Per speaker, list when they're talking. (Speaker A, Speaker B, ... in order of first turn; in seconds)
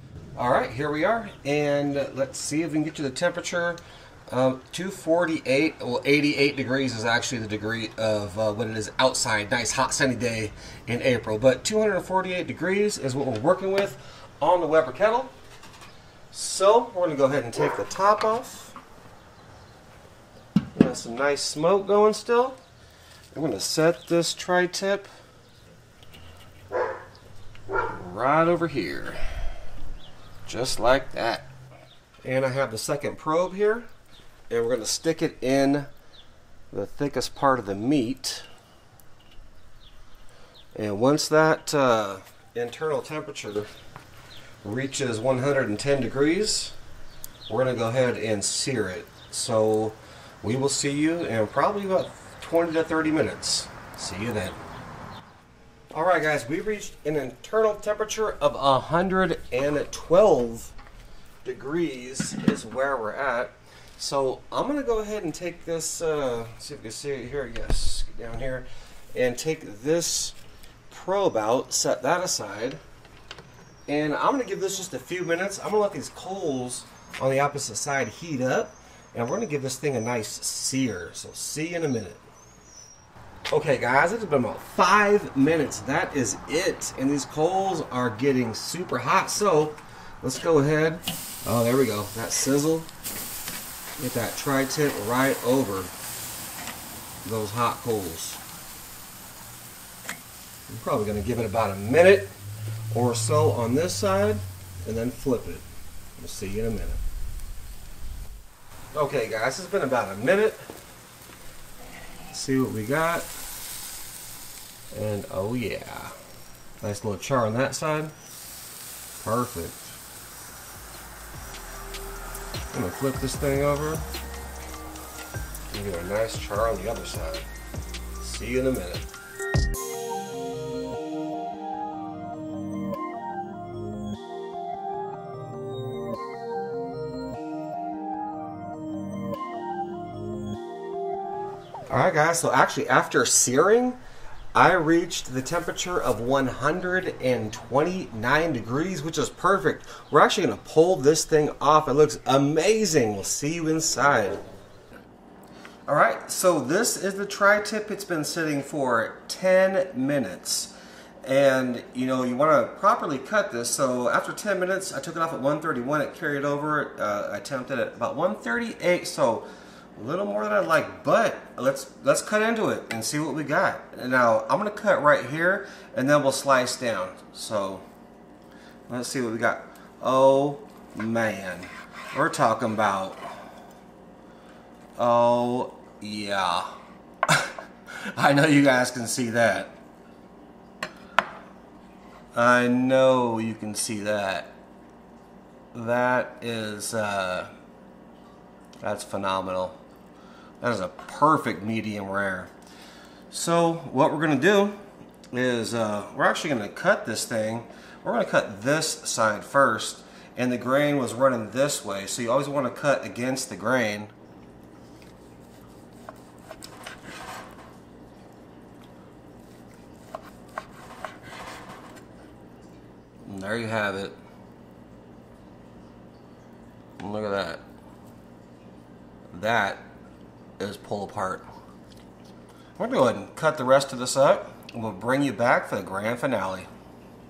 Speaker A: 0.3-15.3, 16.3-18.7, 20.7-22.6, 23.3-25.1, 27.9-29.2, 30.4-31.5, 32.2-33.9, 34.5-35.9, 36.7-38.5, 40.7-43.7, 44.6-46.7, 47.5-54.6, 55.9-60.7, 61.4-70.3, 70.9-72.8, 73.9-82.2, 83.5-92.9, 94.0-95.9, 97.2-98.4, 100.7-102.3, 102.9-105.6, 106.2-107.0, 108.9-110.6, 112.3-113.3, 114.9-116.1, 116.8-118.1, 119.2-120.0, 122.7-124.0, 125.7-127.5, 128.2-129.1, 141.9-144.0, 144.5-154.4, 155.8-160.7, 161.2-177.8, 178.9-183.2, 185.0-186.7, 187.3-189.8, 192.3-194.5, 195.7-197.5, 198.8-199.8, 200.6-202.5, 203.3-204.8, 205.3-214.1, 223.2-224.2, 227.0-227.6, 229.3-229.8, 230.6-231.4, 232.8-236.7